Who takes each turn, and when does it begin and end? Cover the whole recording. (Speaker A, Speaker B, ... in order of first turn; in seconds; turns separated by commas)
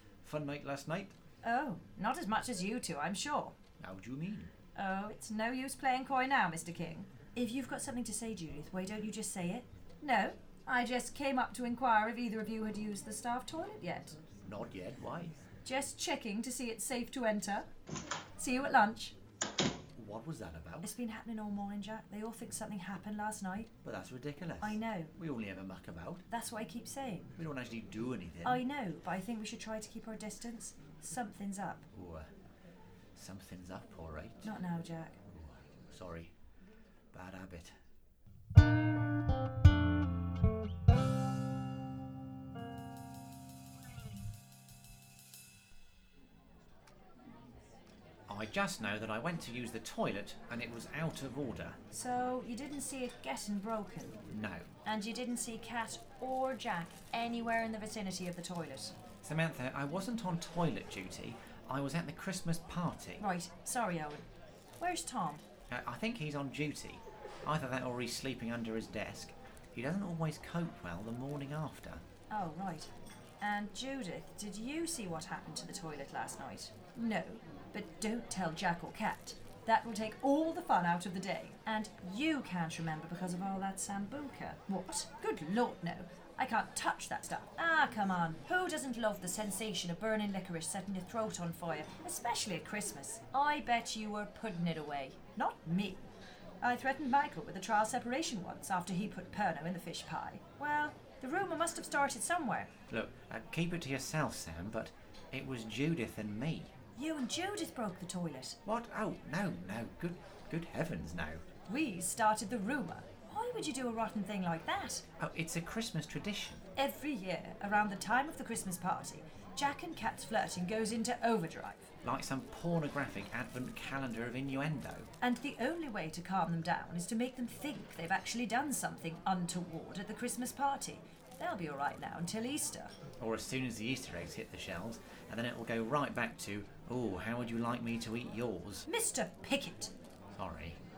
Speaker A: 0.2-1.1, Speaker B: 1.4-3.6, Speaker A: 3.8-4.5, Speaker B: 4.8-14.2, Speaker A: 14.4-15.4, Speaker B: 15.6-17.7, Speaker B: 18.4-19.1, Speaker A: 19.9-20.9, Speaker B: 20.8-23.7, Speaker A: 23.8-26.2, Speaker B: 24.6-25.1, Speaker B: 26.3-27.3, Speaker A: 27.4-28.6, Speaker B: 28.4-31.9, Speaker A: 31.9-32.3, Speaker A: 33.1-34.5, Speaker B: 34.4-35.2, Speaker A: 35.3-36.3, Speaker A: 37.1-37.8, Speaker A: 48.3-51.8, Speaker B: 51.9-54.2, Speaker A: 54.3-54.7, Speaker B: 54.9-58.9, Speaker A: 59.2-63.2, Speaker B: 63.2-64.2, Speaker B: 64.8-65.4, Speaker A: 65.7-72.0, Speaker B: 72.3-72.9, Speaker B: 73.4-96.0, Speaker B: 96.6-102.7, Speaker A: 102.9-106.7, Speaker B: 107.0-108.6, Speaker A: 108.7-111.4, Speaker B: 111.7-115.0, Speaker A: 115.2-116.6, Speaker B: 116.8-121.9, Speaker A: 122.0-125.1, Speaker B: 125.2-132.9, Speaker A: 133.2-138.9, Speaker B: 138.9-139.9, Speaker A: 140.4-140.8